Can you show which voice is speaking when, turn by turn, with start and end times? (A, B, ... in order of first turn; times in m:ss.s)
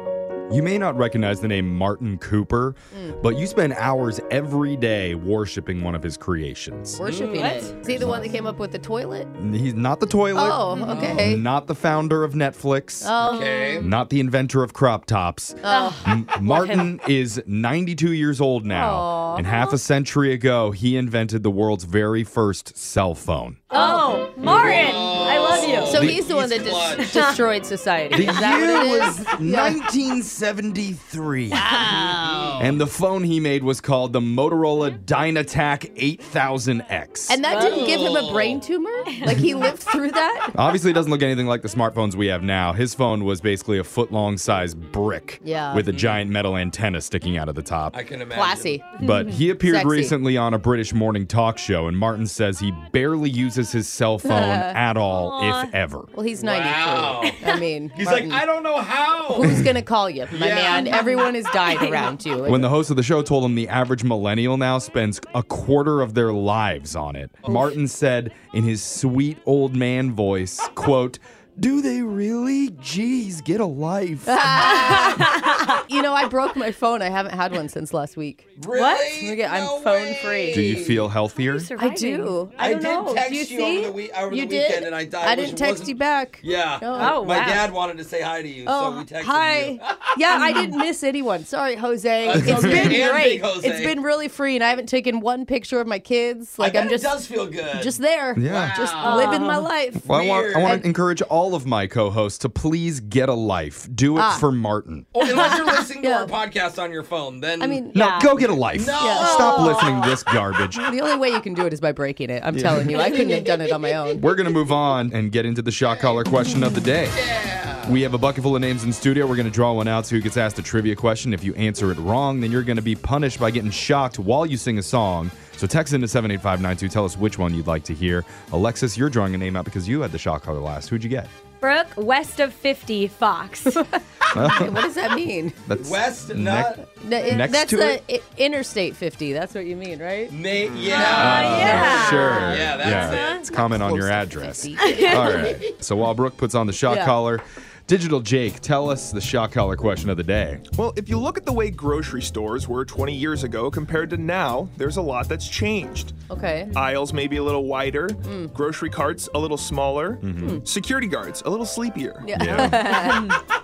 0:00.5-0:07.0 A
0:07.0-0:09.3 B
0:07.0-0:07.6 C
0:07.4-0:07.7 D
0:09.4-0:13.1 A
0:10.4-0:11.4 B
0:10.9-0:11.2 C
0:13.0-0:13.8 B
0:13.2-0:13.9 C
0:13.8-0:23.6 A
0:15.6-0:16.1 B
0:15.7-0:16.9 D
0:18.7-0:19.5 B
0:23.7-0:26.0 D
0:23.7-0:24.1 B
0:24.4-0:27.2 C
0:25.7-0:29.8 B
0:25.9-0:26.3 A
0:27.0-0:27.4 D
0:28.1-0:31.7 A
0:31.6-0:32.7 B
0:31.8-0:32.1 D
0:32.2-0:32.8 C
0:32.6-0:37.4 A
0:37.3-0:40.5 B
0:37.5-0:37.9 D
0:37.5-0:38.6 C
0:40.6-0:48.0 A
0:45.4-0:45.8 B
0:45.9-0:46.2 C
0:47.9-0:48.8 C
0:48.4-0:48.9 B
0:49.0-0:56.1 A
0:49.6-0:50.1 B
0:54.2-0:54.8 B
0:55.1-0:55.7 D
0:56.1-0:58.4 B
0:56.4-0:57.4 C
0:58.0-0:59.6 C
0:59.4-1:02.7 B
1:00.3-1:00.9 C
1:00.7-1:02.0 D
1:02.5-1:14.5 A
1:14.3-1:15.3 B
1:14.6-1:15.8 D
1:15.9-1:18.5 B
1:18.6-1:21.1 C
1:18.8-1:19.1 D
1:19.1-1:20.6 B
1:20.5-1:21.7 A
1:21.4-1:22.4 D
1:21.8-1:27.6 B
1:22.6-1:30.2 C
1:27.0-1:27.7 D
1:28.7-1:37.2 B
1:30.4-1:30.7 D
1:32.2-1:34.0 C
1:32.6-1:32.9 A
1:36.6-1:39.4 C
1:37.7-1:40.1 B
1:38.4-1:38.8 A
1:39.0-1:39.6 D
1:40.0-1:45.1 A
1:40.0-1:40.8 C
1:40.6-1:40.8 B
1:44.2-1:44.4 B
1:45.1-1:47.8 C
1:46.0-1:46.3 B
1:47.6-1:48.3 B
1:47.9-1:50.8 A
1:48.7-1:49.9 C
1:49.0-1:49.8 B
1:49.4-1:49.8 D
1:50.8-1:54.2 B
1:52.5-1:53.0 A
1:53.0-1:53.5 D
1:54.2-1:57.2 A
1:55.9-1:56.2 C
1:57.1-1:58.0 C
1:57.8-2:11.3 A
2:11.6-2:13.8 D
2:14.3-2:14.7 A
2:14.4-2:15.6 B
2:15.7-2:18.0 A
2:15.8-2:16.8 C
2:17.0-2:20.3 B
2:20.3-2:23.4 C
2:20.9-2:23.4 D
2:20.9-2:25.4 B
2:21.2-2:30.6 A
2:24.8-2:25.3 D
2:26.9-2:27.2 B
2:30.7-2:36.2 E
2:36.3-2:36.7 B
2:36.7-2:42.5 E
2:38.2-2:38.5 B
2:40.2-2:40.6 A
2:42.2-2:43.4 B
2:42.4-2:42.9 A
2:43.0-2:43.3 D